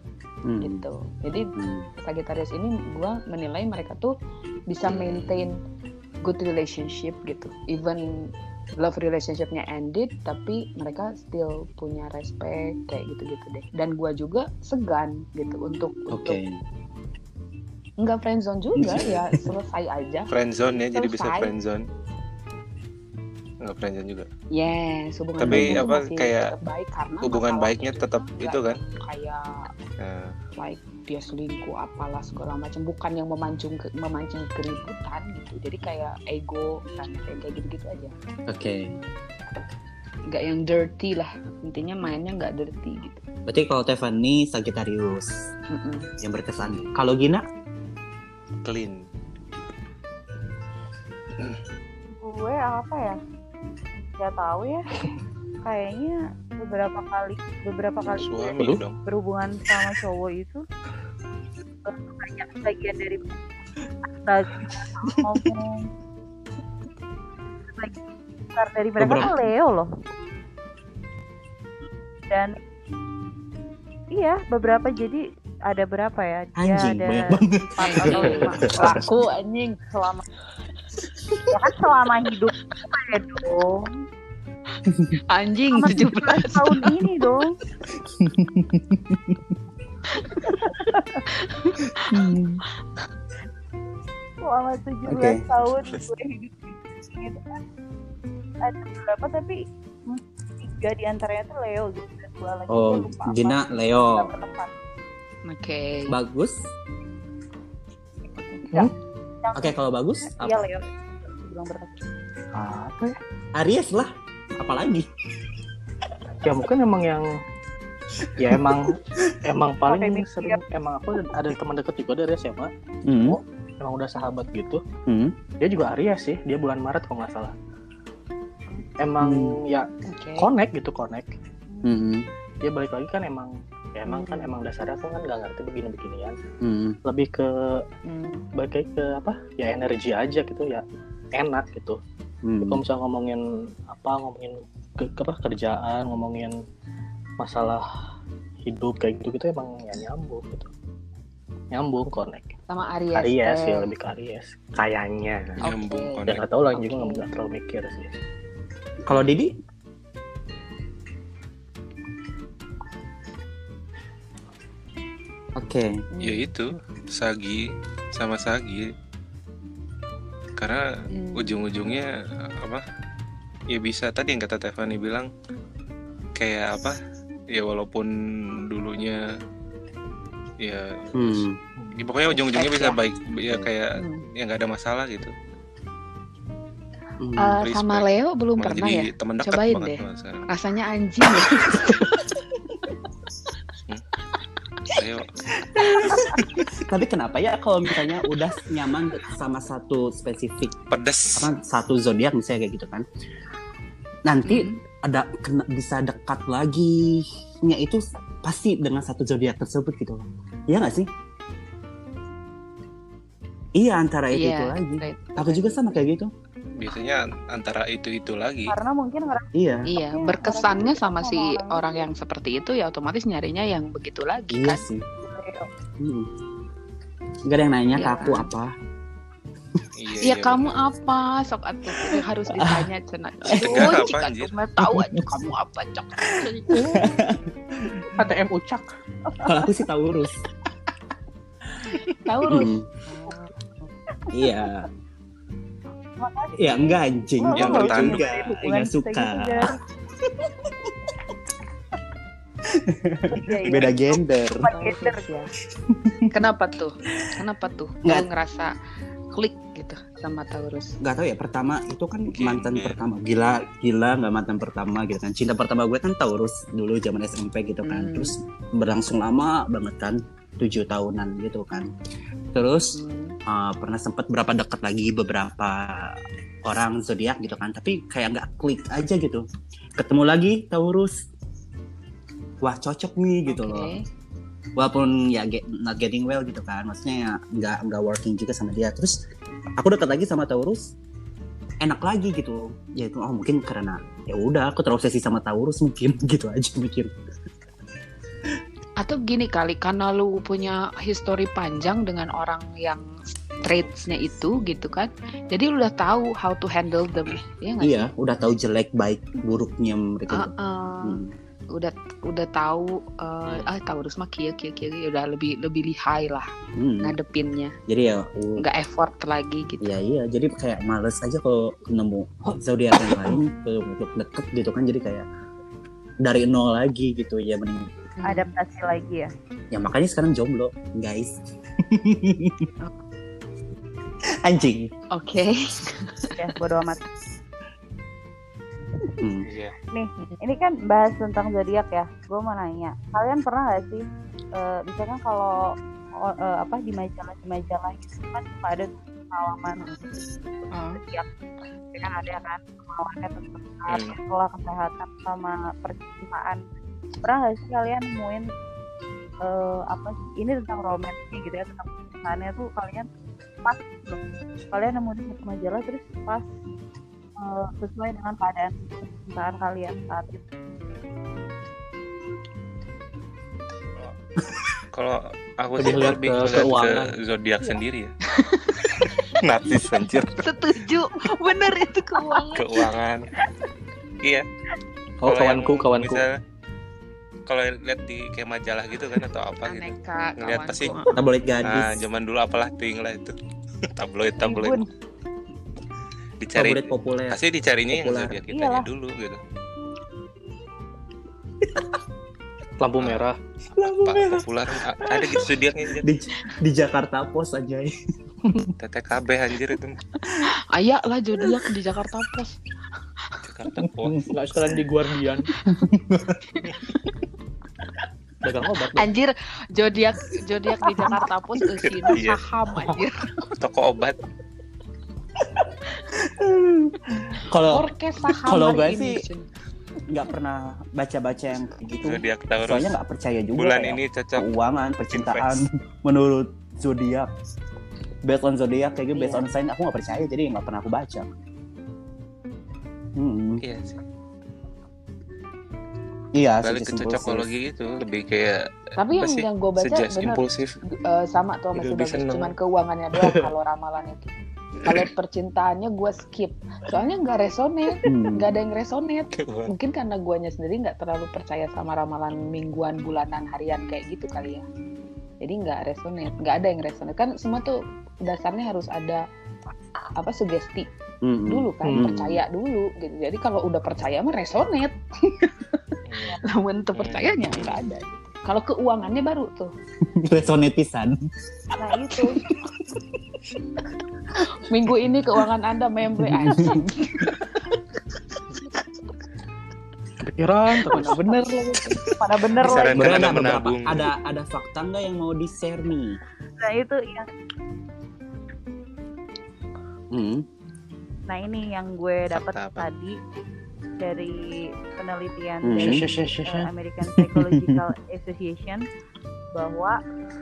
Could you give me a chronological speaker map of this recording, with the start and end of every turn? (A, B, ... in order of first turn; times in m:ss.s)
0:00.4-0:00.8 A
0:00.6-0:04.1 B
0:01.6-0:01.9 A
0:04.7-0:05.6 B
0:04.8-0:05.5 C
0:06.2-0:16.4 B
0:16.1-0:16.6 A
0:18.0-0:21.5 B
0:18.8-0:19.5 A
0:20.3-0:21.8 C
0:23.6-0:24.3 C
0:24.5-0:29.7 B
0:25.4-0:26.5 C
0:25.4-0:25.8 A
0:27.2-0:28.8 C
0:30.0-0:30.3 C
0:30.6-0:38.1 B
0:38.5-0:38.9 A
0:40.3-0:43.2 B
0:43.5-0:45.3 A
0:45.7-0:46.1 B
0:46.2-0:47.4 A
0:46.6-0:46.9 C
0:48.6-0:49.0 C
0:52.2-0:53.2 D
0:54.2-0:54.8 D
0:55.6-1:00.6 D
0:58.1-0:59.0 C
1:01.8-1:03.4 D
1:04.1-1:05.9 D
1:07.7-1:09.9 D
1:09.0-1:09.4 A
1:12.3-1:12.6 D
1:14.1-1:19.0 D
1:16.6-1:19.1 A
1:17.8-1:19.8 B
1:18.1-1:19.0 E
1:19.9-1:20.2 D
1:21.5-1:23.9 D
1:25.3-1:27.1 B
1:25.7-1:27.5 D
1:28.1-1:29.4 A
1:30.1-1:32.3 B
1:32.1-1:32.6 A
1:34.4-1:37.6 D
1:35.1-1:35.4 A
1:38.6-1:44.7 D
1:42.7-1:44.3 A
1:45.5-1:46.1 B
1:46.1-1:46.6 A
1:48.4-1:52.0 D
1:49.5-1:50.6 A
1:52.6-1:53.1 E
1:53.6-1:55.1 A
1:56.4-1:57.2 E
1:58.2-1:59.3 A
1:58.4-2:02.7 E
1:59.8-2:00.6 D
2:03.0-2:03.4 A
2:03.2-2:04.8 E
2:05.1-2:05.4 A
2:05.6-2:07.5 E
2:09.0-2:11.4 E
2:09.2-2:09.5 A
2:10.1-2:10.5 B
2:11.8-2:12.2 A
2:12.6-2:16.4 E
2:14.0-2:14.5 B
2:16.6-2:17.0 A
2:17.0-2:17.8 E
2:18.0-2:18.4 B
2:18.5-2:20.8 E
2:21.3-2:22.0 E
2:22.4-2:22.8 A
2:22.6-2:26.5 E
2:27.4-2:27.9 E
2:28.6-2:30.7 E
2:31.7-2:32.6 E
2:32.7-2:33.9 B
2:33.1-2:35.6 E
2:35.6-2:36.4 C
2:35.6-2:37.2 B
2:36.2-2:38.1 E
2:39.0-2:39.5 A
2:45.5-2:45.9 A
2:46.1-2:46.5 B
2:46.2-2:48.9 C
2:50.6-2:50.8 C
2:51.1-2:51.6 B
2:51.3-2:52.8 C
2:53.7-2:55.3 C
2:56.4-2:57.0 C
2:57.5-2:59.2 C
3:00.6-3:01.5 C
3:01.1-3:01.6 A
3:02.0-3:05.3 C
3:02.3-3:03.0 B
3:04.0-3:04.2 B
3:07.2-3:07.6 A
3:07.4-3:12.3 B
3:07.6-3:08.0 C
3:08.6-3:10.4 C
3:14.9-3:15.3 C
3:15.7-3:20.8 A
3:15.8-3:16.3 B
3:20.9-3:21.5 C
3:21.4-3:23.0 A
3:24.2-3:31.1 A
3:24.4-3:24.8 B
3:33.8-3:36.3 A
3:34.3-3:35.8 B
3:36.8-3:38.7 C
3:38.7-3:42.1 D
3:39.5-3:39.9 A
3:39.9-3:44.8 B
3:44.5-3:45.0 A
3:45.2-3:45.7 D
3:46.0-3:46.3 A
3:47.5-3:48.7 A
3:48.0-3:48.5 B
3:50.0-3:50.8 C
3:50.2-3:57.2 B
3:52.6-3:52.9 A
3:53.5-3:54.0 A
3:53.5-3:54.5 C
3:54.8-3:55.5 A
3:56.3-3:58.0 A
3:58.1-3:58.9 E
3:59.4-4:00.3 A
4:02.2-4:03.5 B
4:02.5-4:02.8 A
4:04.3-4:04.9 A
4:06.2-4:09.7 D
4:06.6-4:09.7 A
4:07.5-4:08.2 C
4:12.7-4:14.7 A
4:13.3-4:15.2 D
4:14.7-4:15.5 B
4:15.9-4:16.4 A
4:16.3-4:18.7 B
4:19.3-4:20.9 B
4:21.0-4:31.9 A
4:22.3-4:23.0 C
4:27.8-4:28.3 B
4:32.5-4:39.4 A
4:32.9-4:33.4 B
4:40.0-4:41.2 A
4:42.6-4:43.9 A
4:43.5-4:44.0 B
4:44.8-4:49.2 A
4:49.8-4:50.9 A
4:51.8-4:57.1 A
4:59.0-5:03.1 B
5:03.6-5:08.1 B
5:07.8-5:11.3 A
5:10.3-5:11.2 B
5:11.7-5:16.5 B
5:13.5-5:13.8 C
5:16.8-5:17.2 A
5:17.0-5:17.8 B
5:17.9-5:18.6 A
5:18.6-5:19.9 B
5:19.8-5:25.2 A
5:22.5-5:23.4 E
5:26.2-5:27.9 A
5:28.2-5:28.5 B
5:28.2-5:29.3 D
5:29.7-5:32.7 A
5:34.4-5:34.9 A
5:35.1-5:36.3 B
5:36.4-5:37.0 D
5:39.2-5:39.5 A
5:39.5-5:39.7 C
5:39.9-5:44.0 D
5:44.5-5:49.9 D
5:49.8-5:50.1 B
5:50.7-5:51.0 B
5:51.0-5:51.3 D
5:51.9-5:56.6 D
5:53.9-5:54.2 C
5:57.2-5:58.4 D
5:59.4-6:03.1 D
6:03.6-6:04.2 D
6:04.7-6:06.4 D
6:07.4-6:08.7 D
6:09.2-6:10.4 D
6:14.9-6:18.1 C
6:15.8-6:16.7 E
6:16.4-6:17.1 A
6:18.4-6:18.8 B
6:19.0-6:20.4 C
6:20.4-6:22.9 B
6:22.5-6:23.3 C
6:25.2-6:26.3 E
6:25.2-6:26.3 C
6:27.5-6:31.0 C
6:29.6-6:31.1 B
6:31.1-6:32.0 A
6:31.6-6:33.3 C
6:34.0-6:34.8 C
6:34.4-6:34.8 D
6:36.4-6:39.4 C
6:36.6-6:37.4 A
6:37.9-6:38.4 A
6:38.5-6:38.9 D
6:41.6-6:41.9 A
6:42.8-6:43.4 E
6:43.7-6:47.9 A
6:44.0-6:46.0 C
6:48.8-6:50.0 C
6:50.3-6:52.6 B
6:53.4-6:54.2 C
6:53.8-6:54.8 A
6:54.3-6:55.5 E
6:55.6-6:56.4 A
6:56.5-6:56.9 B
6:58.4-6:59.1 E
6:59.0-7:03.4 B
7:01.8-7:02.5 C
7:03.5-7:04.2 C
7:05.6-7:07.9 A
7:07.6-7:09.5 B
7:08.4-7:09.2 A
7:10.1-7:17.3 A
7:12.0-7:12.9 C
7:13.6-7:14.5 C
7:15.1-7:15.6 C
7:18.2-7:21.3 A
7:19.1-7:19.4 B
7:23.2-7:23.6 A
7:23.6-7:24.0 C
7:26.3-7:27.5 A
7:26.6-7:30.8 C
7:29.0-7:34.3 B
7:31.7-7:32.5 C
7:34.8-7:44.6 B
7:38.0-7:38.5 A
7:39.3-7:39.7 C
7:45.4-7:49.2 B
7:50.1-7:50.9 B
7:51.2-7:52.4 A
7:51.5-7:55.8 B
7:51.8-7:52.1 E
7:56.1-7:56.4 C
7:56.4-7:59.7 B
7:56.9-7:57.8 C
8:00.1-8:01.2 A
8:01.8-8:02.4 D
8:02.1-8:02.7 A
8:04.6-8:07.6 B
8:06.2-8:07.3 A
8:10.2-8:11.5 E
8:10.8-8:12.1 B
8:12.2-8:13.2 D
8:12.6-8:14.1 C
8:12.9-8:16.2 A
8:16.6-8:17.3 D
8:20.1-8:20.4 A
8:21.3-8:23.1 D
8:22.3-8:22.9 C
8:24.0-8:28.9 D
8:25.6-8:26.0 A
8:25.7-8:26.7 E
8:27.1-8:27.8 A
8:29.5-8:30.0 D